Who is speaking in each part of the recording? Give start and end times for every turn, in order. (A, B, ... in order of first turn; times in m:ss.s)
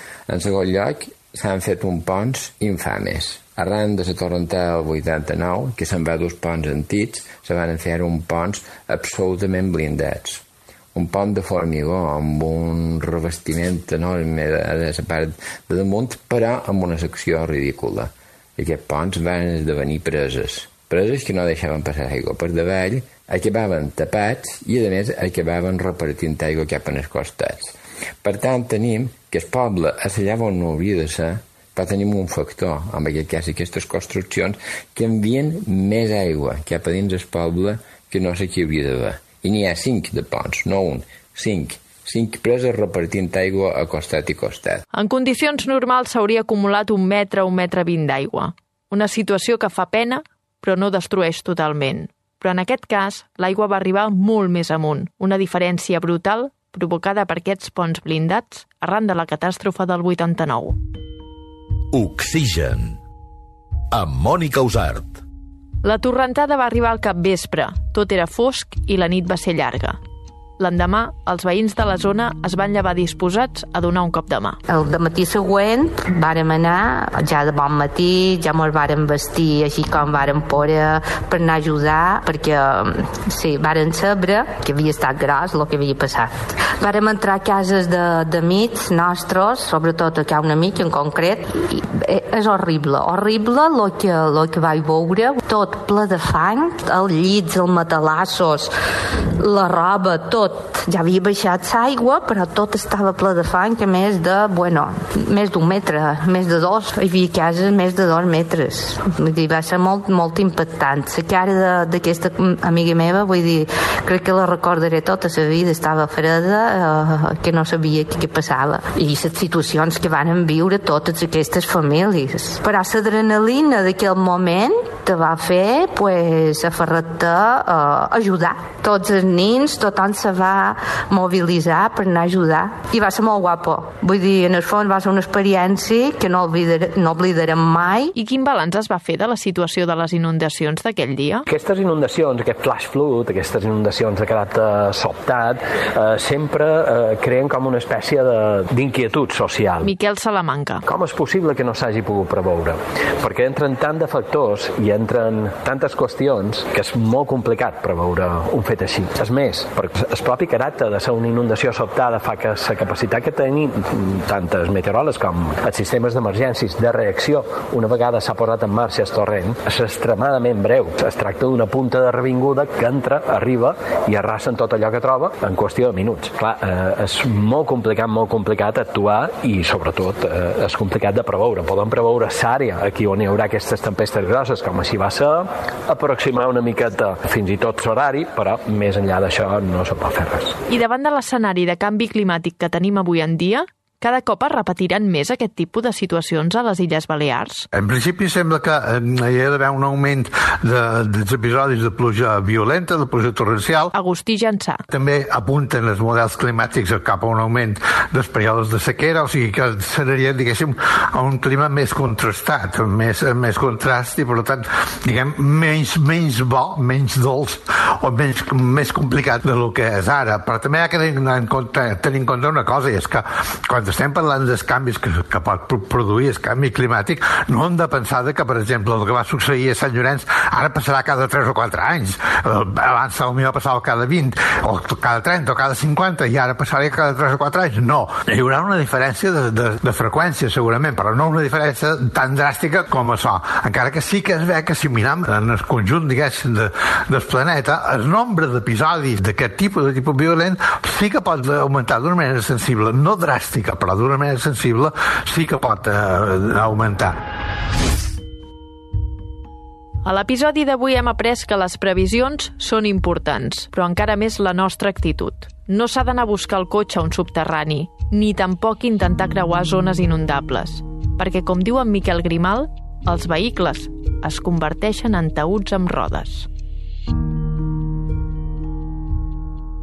0:00.3-0:44.8 A
0:44.9-1:00.8 B
1:01.9-1:03.0 C
1:03.9-1:05.2 C
1:05.8-1:10.0 B
1:10.6-1:14.6 B
1:14.7-1:38.7 D
1:39.4-2:18.1 D
2:18.1-2:21.4 B
2:21.5-2:29.9 E
2:29.8-2:30.8 B
2:30.8-3:10.6 E
3:10.7-3:17.7 B
3:17.7-3:23.9 F
3:23.9-3:24.8 B
3:24.9-4:17.2 F
4:20.0-4:36.5 B